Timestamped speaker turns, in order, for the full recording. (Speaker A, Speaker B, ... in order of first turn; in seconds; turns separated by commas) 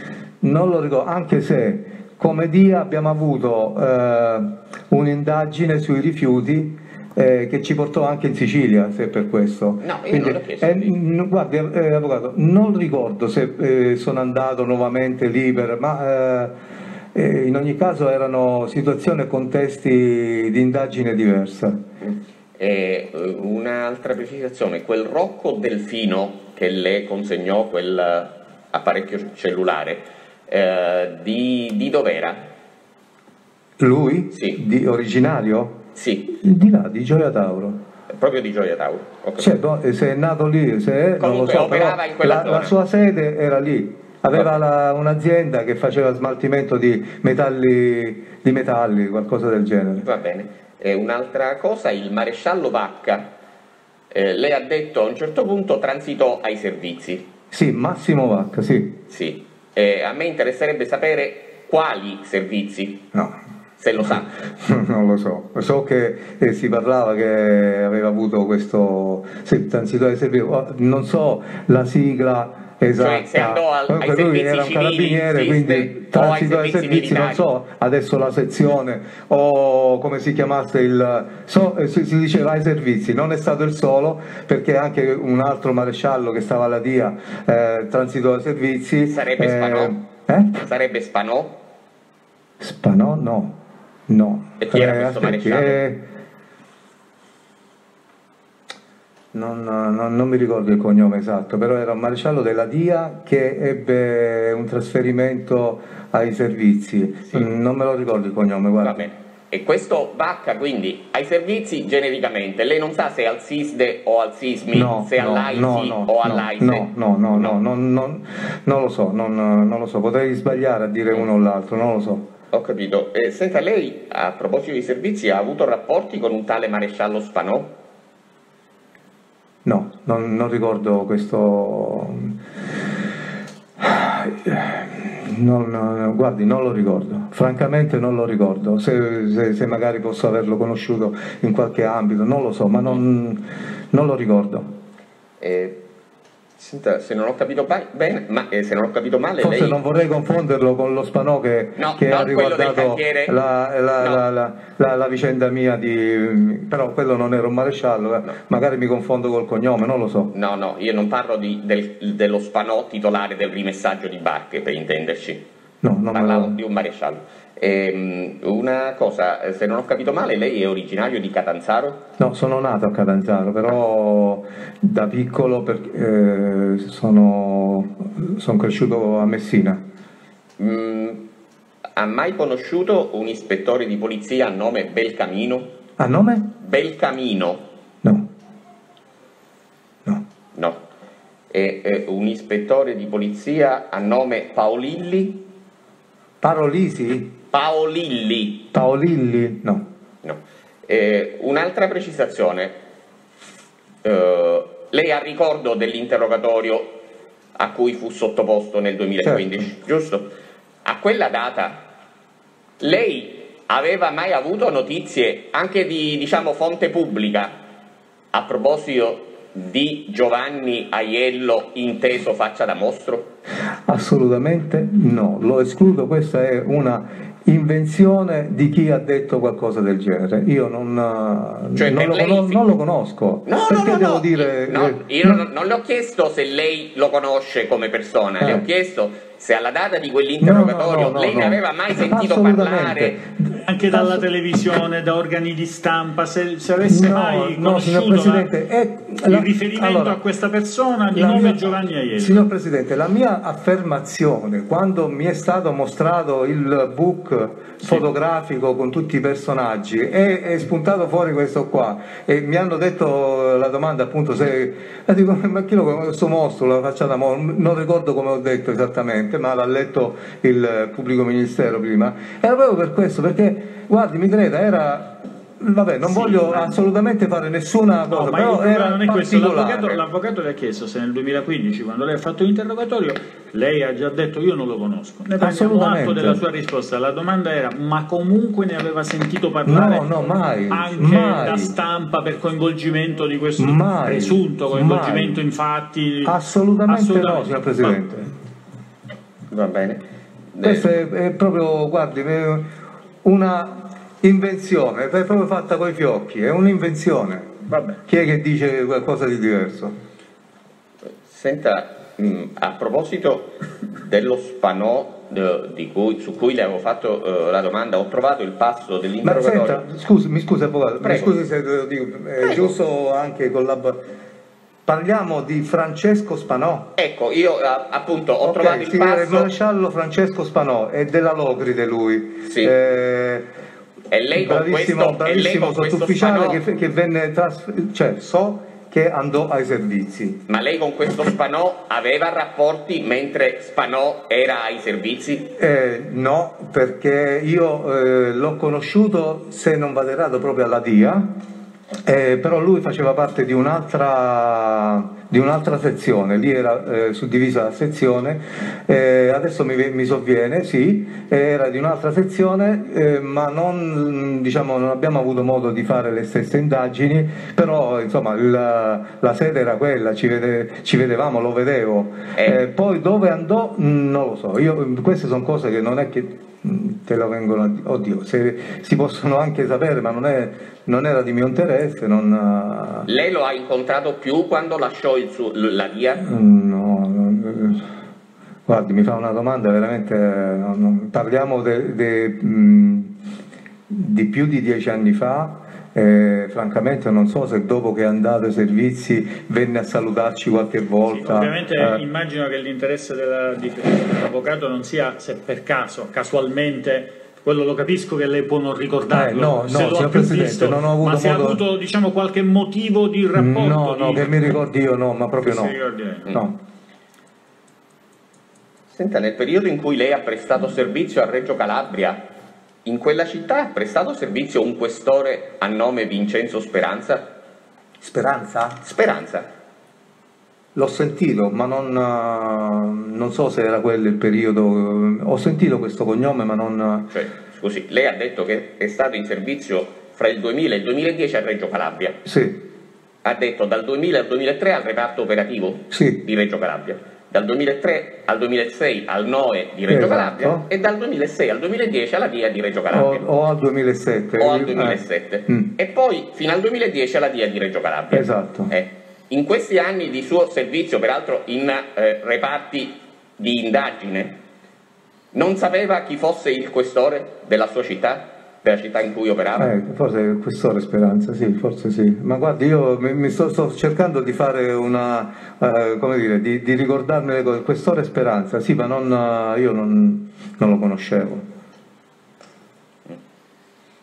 Speaker A: 0.4-16.5, Speaker B: 9.8-10.9, Speaker A: 17.1-21.8, Speaker B: 22.0-32.5, Speaker A: 33.8-37.8, Speaker B: 34.3-34.6, Speaker B: 36.0-36.3, Speaker B: 38.1-39.5, Speaker A: 39.4-50.1, Speaker B: 41.2-42.7, Speaker B: 50.0-53.3, Speaker B: 54.1-57.2, Speaker A: 57.5-59.0, Speaker B: 59.1-63.0, Speaker A: 63.1-63.4, Speaker B: 63.8-64.3, Speaker A: 64.0-90.6, Speaker B: 73.0-77.4, Speaker B: 89.1-90.0, Speaker B: 90.6-91.6, Speaker A: 92.6-96.0, Speaker B: 94.6-95.8, Speaker A: 99.3-109.1, Speaker B: 108.8-117.6, Speaker A: 114.7-122.3, Speaker B: 122.5-127.7, Speaker A: 129.7-132.3, Speaker A: 133.8-144.7, Speaker B: 145.4-145.8, Speaker B: 146.6-149.8, Speaker A: 149.4-160.3, Speaker B: 151.8-153.3, Speaker B: 160.3-165.4, Speaker A: 165.8-166.6, Speaker B: 166.1-172.0, Speaker A: 172.2-179.8, Speaker B: 180.6-181.2, Speaker B: 182.0-185.7, Speaker A: 186.0-186.5, Speaker B: 186.6-187.6, Speaker B: 190.6-190.8, Speaker B: 191.5-195.4, Speaker A: 196.4-197.3, Speaker B: 197.5-198.7, Speaker A: 198.7-199.9, Speaker B: 200.2-202.8, Speaker B: 204.0-207.0, Speaker B: 207.6-210.3, Speaker A: 209.2-209.5, Speaker B: 210.8-211.9, Speaker B: 212.8-217.6, Speaker B: 218.3-223.3, Speaker A: 223.9-235.4, Speaker B: 231.8-232.6, Speaker B: 233.4-243.2, Speaker A: 238.4-238.7, Speaker A: 240.4-244.2, Speaker C: 243.6-248.5, Speaker A: 246.8-250.2, Speaker C: 249.2-252.5, Speaker A: 251.1-280.0, Speaker C: 278.1-298.0, Speaker A: 285.4-286.4, Speaker A: 289.6-291.7, Speaker A: 293.6-295.4, Speaker A: 296.2-298.3, Speaker B: 299.5-300.0, Speaker B: 300.5-300.9, Speaker A: 300.6-302.7, Speaker A: 303.2-309.9, Speaker B: 311.3-319.9, Speaker A: 319.2-324.0, Speaker B: 321.0-321.3, Speaker B: 322.4-322.7, Speaker A: 324.9-326.9, Speaker B: 327.0-329.5, Speaker A: 328.4-333.5, Speaker B: 332.4-332.7, Speaker B: 334.1-336.6, Speaker A: 334.4-340.4, Speaker B: 340.5-345.5, Speaker A: 345.5-351.3, Speaker A: 352.1-383.1, Speaker B: 383.1-386.2, Speaker A: 386.2-387.9, Speaker A: 388.7-393.1, Speaker A: 393.9-402.0, Speaker C: 401.1-414.6, Speaker A: 409.1-411.6, Speaker A: 413.3-415.8, Speaker C: 415.4-416.4, Speaker B: 418.9-422.2, Speaker B: 422.9-427.3, Speaker A: 428.0-428.8, Speaker B: 428.8-429.5, Speaker A: 430.8-437.1, Speaker B: 437.1-442.2, Speaker A: 442.2-442.6, Speaker B: 443.2-453.2, Speaker A: 445.9-446.2, Speaker A: 449.9-450.7, Speaker A: 452.9-455.7, Speaker B: 454.4-464.4, Speaker A: 458.1-458.7, Speaker B: 465.3-469.7, Speaker A: 469.6-481.4